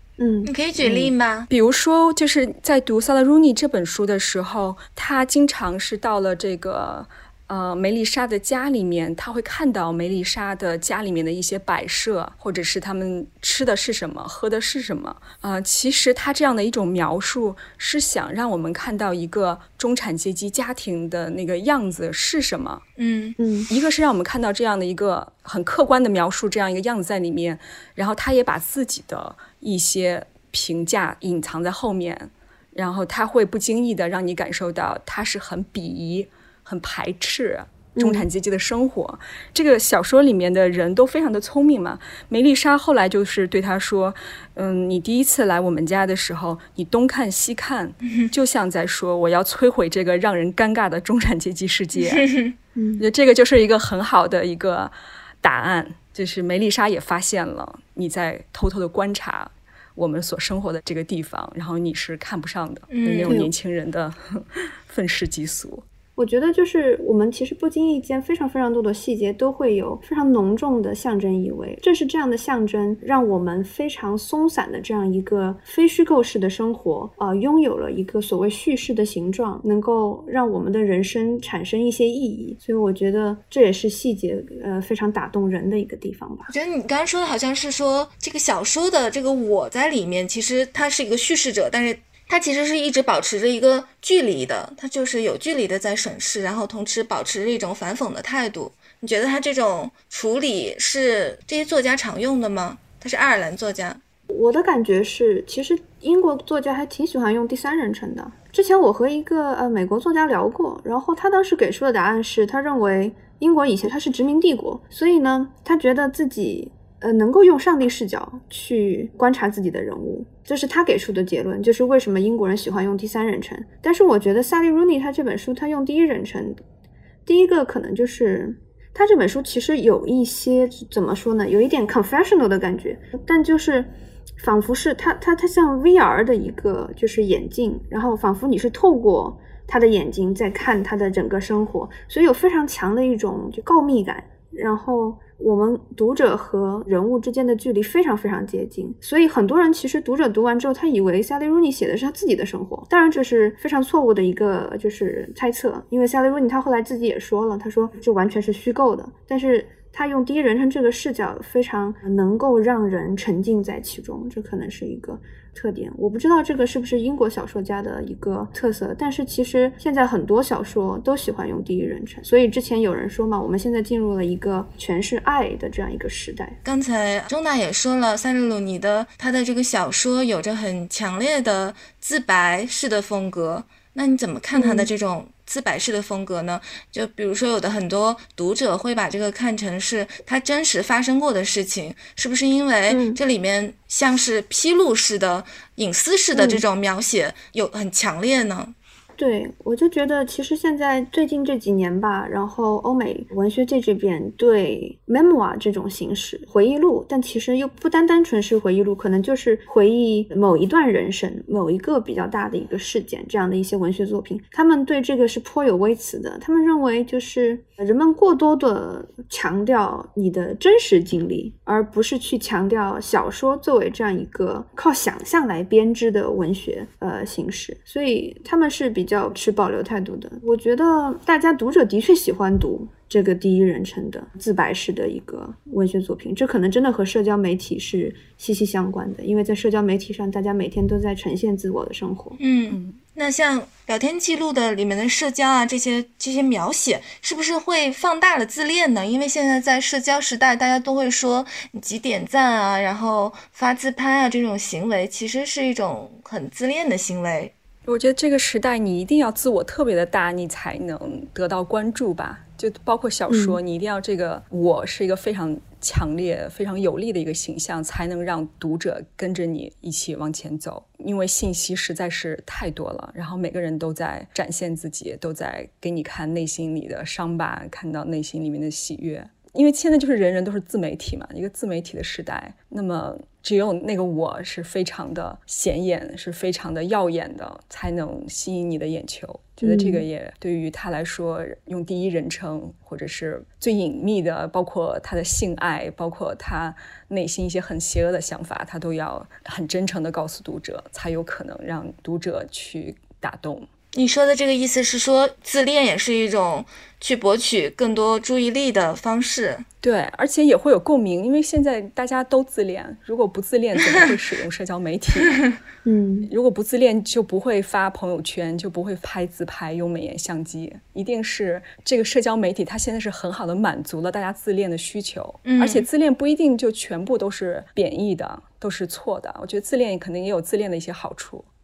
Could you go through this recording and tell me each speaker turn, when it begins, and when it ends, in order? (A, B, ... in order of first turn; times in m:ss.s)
0:00.2-0:00.5 A
0:00.4-0:01.5 B
0:00.8-0:22.8 C
0:23.0-0:23.4 B
0:23.4-0:23.7 A
0:23.7-0:52.3 C
0:38.0-0:38.3 A
0:52.1-0:52.5 B
0:52.8-0:53.0 A
0:53.0-1:05.8 C
1:02.9-1:03.4 B
1:06.2-1:26.5 A
1:26.5-1:44.0 B
1:44.3-2:06.6 A
2:07.3-2:56.6 A
2:56.6-3:18.8 B
3:04.5-3:04.9 A
3:12.9-3:13.2 A
3:16.4-3:16.6 A
3:19.2-4:02.4 A
4:02.4-4:17.5 B
4:02.7-4:03.0 C
4:17.9-5:03.7 C
4:23.3-4:23.6 A
4:49.6-4:50.0 A
5:03.9-5:09.6 B
5:09.8-5:15.4 C
5:15.8-5:16.3 A
5:16.3-5:31.5 C
5:25.4-5:25.9 B